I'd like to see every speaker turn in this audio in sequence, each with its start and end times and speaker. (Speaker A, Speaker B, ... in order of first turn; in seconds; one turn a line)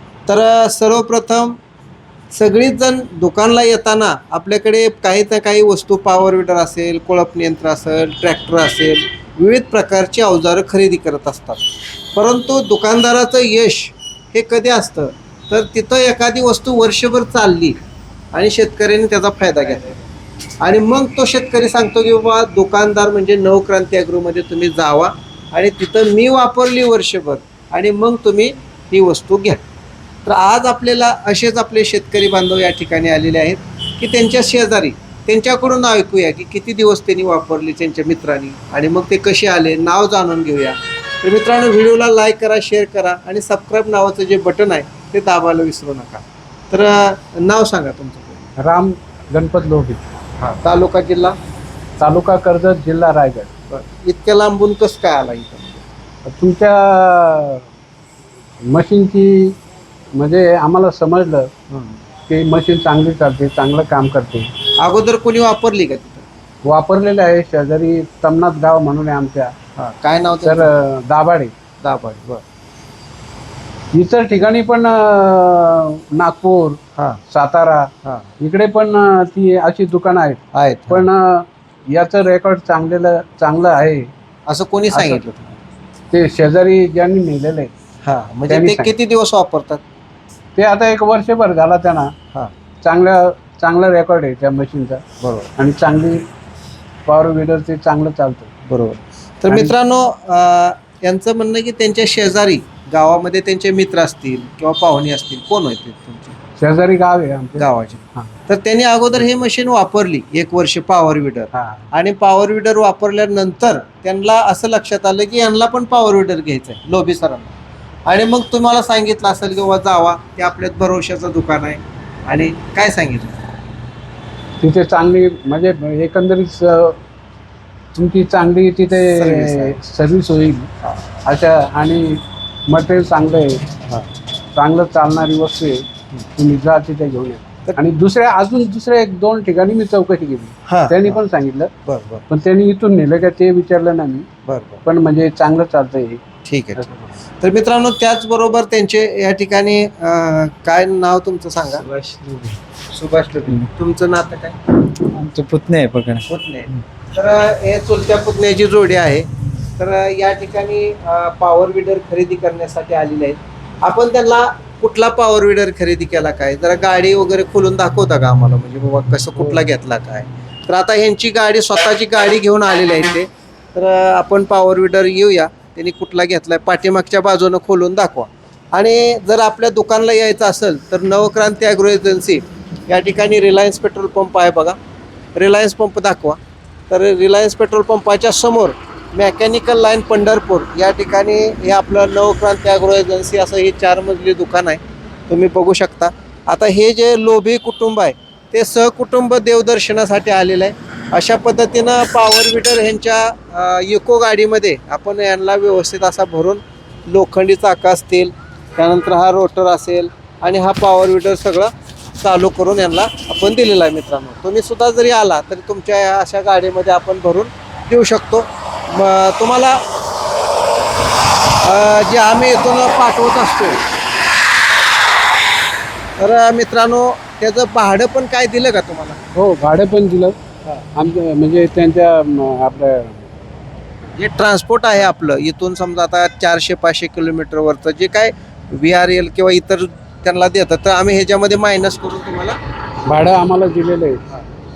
Speaker A: 0.3-1.6
Speaker A: 2.3-11.6
Speaker A: 12.1-17.8
Speaker A: 18.3-20.0
Speaker A: 20.6-29.6
Speaker A: 30.3-48.5
Speaker B: 48.6-50.0
Speaker A: 50.4-51.4
Speaker B: 52.0-53.5
Speaker A: 53.7-55.8
Speaker B: 56.2-57.7
Speaker B: 58.6-59.6
Speaker B: 60.2-61.5
Speaker A: 61.7-62.0
Speaker B: 62.3-64.5
Speaker A: 64.8-66.2
Speaker B: 66.7-69.5
Speaker A: 69.8-70.7
Speaker B: 70.5-71.5
Speaker A: 71.8-72.4
Speaker B: 73.9-84.1
Speaker A: 78.0-78.3
Speaker A: 80.5-81.1
Speaker A: 84.5-85.6
Speaker B: 84.9-85.2
Speaker B: 86.1-87.7
Speaker A: 88.0-89.8
Speaker B: 88.5-88.9
Speaker B: 90.6-92.1
Speaker B: 92.8-95.0
Speaker A: 95.2-95.5
Speaker B: 95.6-96.2
Speaker B: 97.1-98.5
Speaker A: 98.7-106.4
Speaker B: 99.5-99.7
Speaker B: 106.6-108.3
Speaker A: 107.6-117.5
Speaker B: 111.5-111.8
Speaker A: 118.1-123.4
Speaker B: 124.6-127.0
Speaker B: 127.9-130.7
Speaker A: 129.1-129.8
Speaker A: 130.8-131.1
Speaker B: 131.3-133.6
Speaker B: 134.6-141.7
Speaker A: 140.7-141.2
Speaker A: 141.9-142.3
Speaker B: 142.3-144.3
Speaker A: 144.5-144.8
Speaker B: 144.8-146.2
Speaker A: 146.4-146.8
Speaker B: 146.8-147.1
Speaker A: 147.4-151.8
Speaker C: 151.7-152.6
Speaker A: 152.9-154.6
Speaker C: 155.0-156.3
Speaker A: 156.3-184.8
Speaker A: 185.4-186.4
Speaker A: 186.9-219.8
Speaker A: 221.6-223.8
Speaker A: 226.2-229.2
Speaker B: 229.3-230.3
Speaker B: 230.9-233.3
Speaker A: 234.2-242.6
Speaker B: 243.1-244.2